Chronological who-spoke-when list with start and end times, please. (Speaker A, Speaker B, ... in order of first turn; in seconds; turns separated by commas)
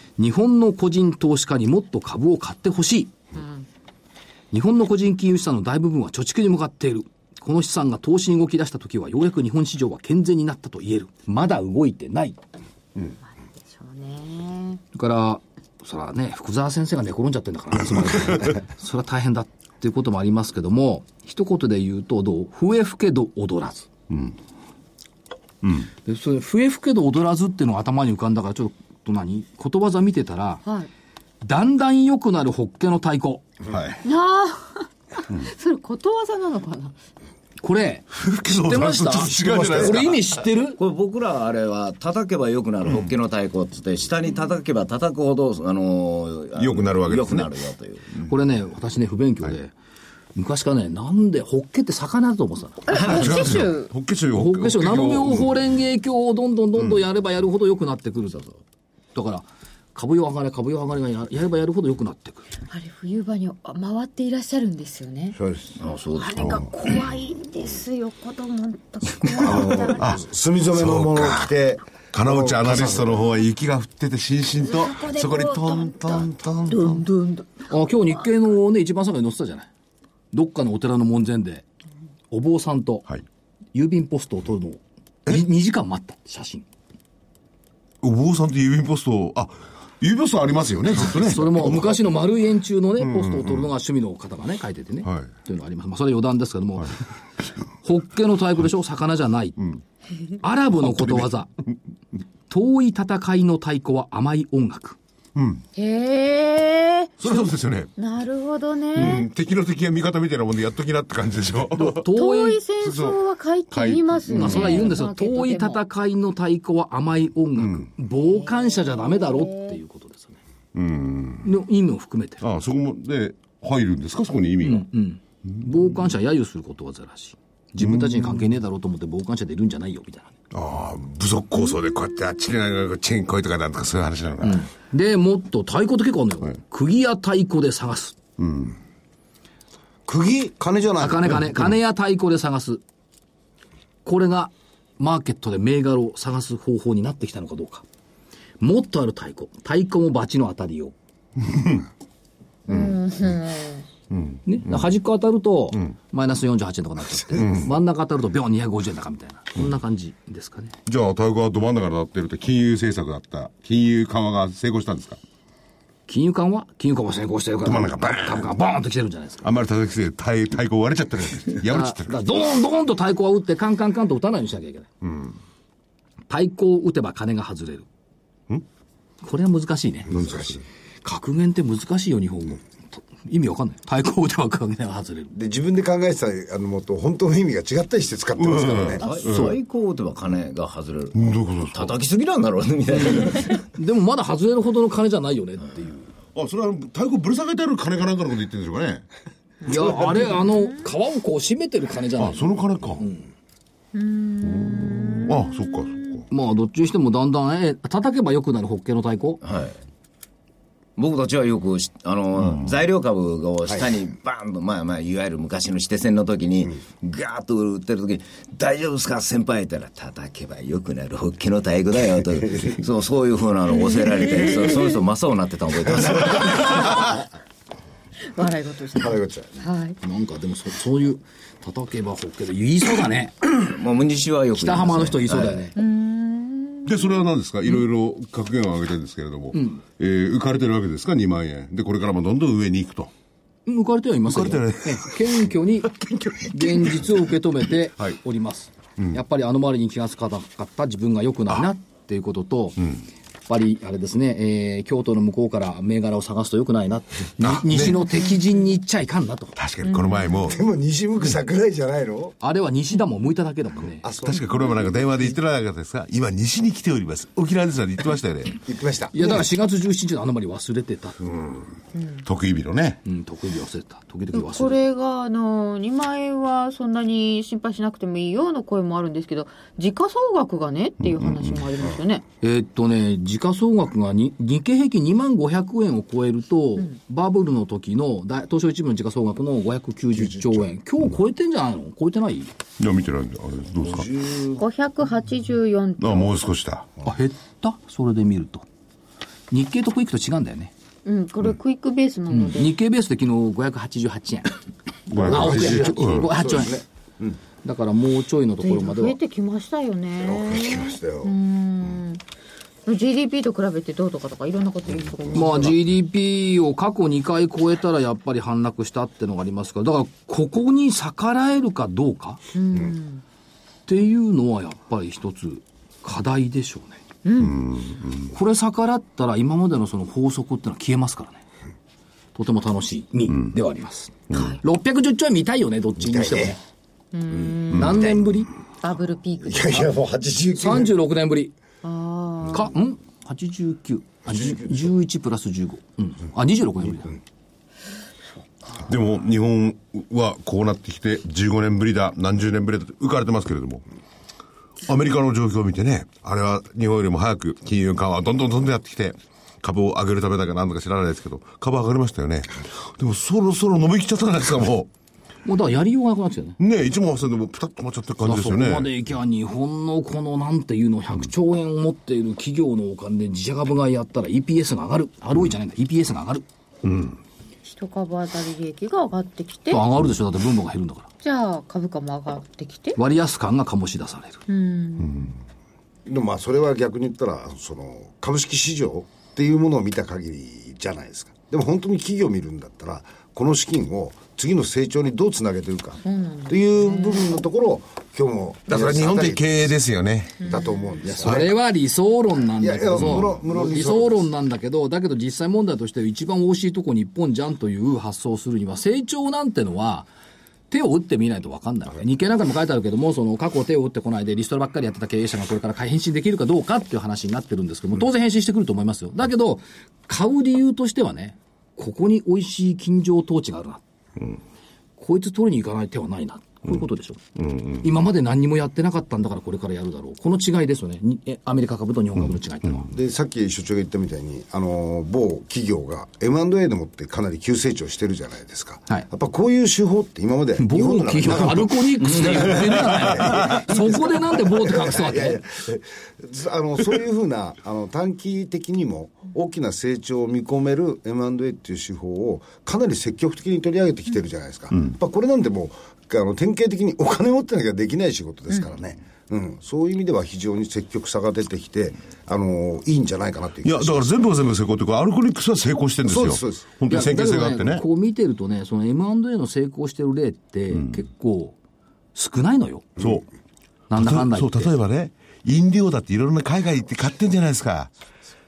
Speaker A: 0.2-3.2, Speaker B: 3.4-3.6, Speaker A: 4.5-12.4, Speaker B: 13.3-14.8, Speaker A: 14.9-23.9, Speaker C: 24.1-24.3, Speaker A: 26.0-30.6, Speaker B: 30.6-30.9, Speaker A: 31.4-33.4, Speaker C: 33.6-34.0, Speaker B: 34.0-37.0, Speaker A: 37.6-40.8, Speaker C: 38.1-40.2, Speaker D: 39.4-40.0, Speaker E: 40.8-48.2, Speaker C: 46.5-47.5, Speaker A: 48.3-49.7, Speaker A: 50.3-53.0, Speaker B: 52.9-53.9, Speaker C: 52.9-55.5, Speaker A: 54.3-58.6, Speaker A: 59.1-62.5, Speaker B: 62.7-65.4, Speaker D: 65.3-65.8, Speaker E: 65.8-66.7, Speaker B: 66.2-70.2, Speaker C: 66.4-66.7, Speaker D: 69.3-73.2, Speaker C: 70.0-71.5, Speaker C: 72.1-77.0, Speaker B: 74.6-77.8, Speaker A: 77.7-79.7, Speaker A: 80.3-81.6, Speaker A: 82.3-83.1, Speaker A: 83.7-86.7, Speaker C: 88.0-92.1, Speaker A: 91.0-97.0, Speaker C: 93.0-93.7, Speaker C: 95.0-95.3, Speaker A: 97.8-99.6, Speaker A: 100.4-101.5, Speaker C: 100.7-101.8, Speaker A: 102.5-105.0, Speaker C: 105.3-105.6, Speaker B: 105.8-107.2, Speaker C: 107.2-107.9, Speaker B: 108.0-109.2, Speaker A: 109.0-109.2, Speaker C: 109.0-112.1, Speaker A: 111.8-112.6, Speaker B: 112.1-115.8, Speaker C: 112.8-113.2, Speaker C: 113.7-114.9, Speaker A: 114.3-120.4, Speaker C: 117.6-117.9, Speaker B: 118.2-119.8, Speaker C: 120.7-121.5, Speaker A: 121.4-122.4, Speaker C: 122.4-124.9, Speaker A: 124.6-130.3, Speaker C: 127.8-128.4, Speaker C: 130.5-134.7, Speaker A: 134.4-138.2, Speaker C: 138.4-138.8, Speaker D: 140.1-141.4, Speaker A: 141.0-142.8, Speaker A: 144.0-147.8, Speaker A: 148.6-150.9, Speaker C: 151.5-151.8, Speaker B: 152.7-153.8, Speaker C: 154.1-154.8, Speaker A: 154.4-160.8, Speaker C: 157.3-157.7, Speaker C: 160.8-165.2, Speaker A: 166.1-169.5, Speaker C: 167.6-168.5, Speaker C: 169.4-172.3, Speaker A: 171.7-174.9, Speaker C: 175.0-175.3, Speaker A: 176.3-177.9, Speaker A: 179.2-180.1, Speaker D: 180.1-180.6, Speaker C: 180.1-180.6, Speaker A: 181.0-185.3, Speaker D: 185.3-189.0, Speaker C: 188.4-189.5, Speaker E: 189.0-193.6, Speaker A: 189.3-189.5, Speaker C: 191.1-191.9, Speaker A: 192.9-196.1, Speaker C: 196.3-199.1, Speaker A: 199.7-203.2, Speaker B: 200.2-200.7, Speaker C: 202.2-203.1, Speaker B: 203.9-205.6, Speaker C: 204.4-206.2, Speaker A: 206.3-209.4, Speaker E: 209.4-209.8, Speaker E: 211.0-227.1, Speaker B: 228.3-230.0, Speaker D: 228.9-229.6, Speaker A: 230.0-233.5, Speaker E: 233.6-235.7, Speaker A: 234.6-235.8, Speaker B: 235.8-237.2, Speaker C: 236.8-243.1, Speaker A: 239.5-239.8, Speaker A: 243.7-252.9, Speaker C: 244.3-245.2, Speaker C: 246.1-247.0, Speaker A: 253.5-259.6, Speaker C: 257.4-258.1, Speaker C: 259.6-260.6, Speaker B: 259.8-260.3, Speaker D: 260.4-262.4, Speaker A: 262.4-264.0, Speaker D: 264.0-264.7, Speaker C: 264.2-268.6, Speaker D: 268.6-269.3, Speaker A: 269.1-271.2, Speaker C: 271.2-271.7, Speaker B: 271.9-272.2, Speaker C: 272.2-273.0, Speaker A: 273.0-274.8, Speaker B: 274.3-282.2, Speaker C: 281.1-281.5, Speaker A: 282.4-292.5, Speaker D: 290.2-290.6, Speaker C: 292.8-294.1, Speaker D: 293.9-294.6, Speaker B: 294.6-296.4, Speaker C: 296.0-296.9, Speaker A: 297.0-298.6, Speaker A: 299.5-300.7, Speaker B: 301.0-302.7, Speaker A: 302.3-304.6, Speaker C: 305.1-306.3, Speaker D: 305.1-307.4, Speaker A: 305.2-306.8, Speaker A: 307.6-309.1, Speaker B: 308.6-312.2, Speaker D: 310.2-311.3, Speaker B: 312.9-315.8, Speaker A: 315.3-322.4, Speaker B: 322.5-323.2, Speaker A: 323.9-327.0, Speaker B: 327.2-327.7, Speaker C: 327.4-328.1, Speaker A: 328.3-331.4, Speaker A: 332.3-336.6, Speaker B: 334.3-334.6, Speaker D: 336.0-336.6, Speaker B: 337.1-338.1, Speaker A: 337.7-338.5, Speaker B: 338.8-339.9, Speaker D: 339.4-340.9, Speaker A: 340.5-341.5, Speaker B: 341.8-342.7, Speaker A: 342.5-347.2, Speaker D: 344.3-344.6, Speaker C: 348.8-353.8, Speaker C: 354.8-364.9, Speaker A: 365.4-366.6, Speaker C: 366.6-368.9, Speaker A: 368.2-376.4, Speaker C: 376.8-377.2, Speaker B: 377.6-379.8, Speaker A: 379.7-381.1, Speaker B: 381.2-383.0, Speaker A: 382.9-384.4, Speaker B: 384.5-385.3, Speaker D: 386.1-399.5, Speaker B: 396.0-397.3, Speaker C: 398.7-400.5, Speaker D: 400.4-401.5, Speaker B: 400.4-400.9, Speaker A: 401.0-410.1, Speaker D: 402.6-404.2, Speaker A: 410.7-423.8, Speaker A: 425.0-427.2, Speaker C: 427.4-427.8, Speaker A: 427.8-432.9, Speaker D: 432.9-464.1, Speaker A: 440.6-445.4, Speaker C: 463.6-467.8, Speaker D: 466.1-466.7, Speaker A: 466.9-471.6, Speaker A: 472.1-472.9, Speaker C: 473.0-473.3, Speaker A: 473.9-474.7, Speaker C: 473.9-477.9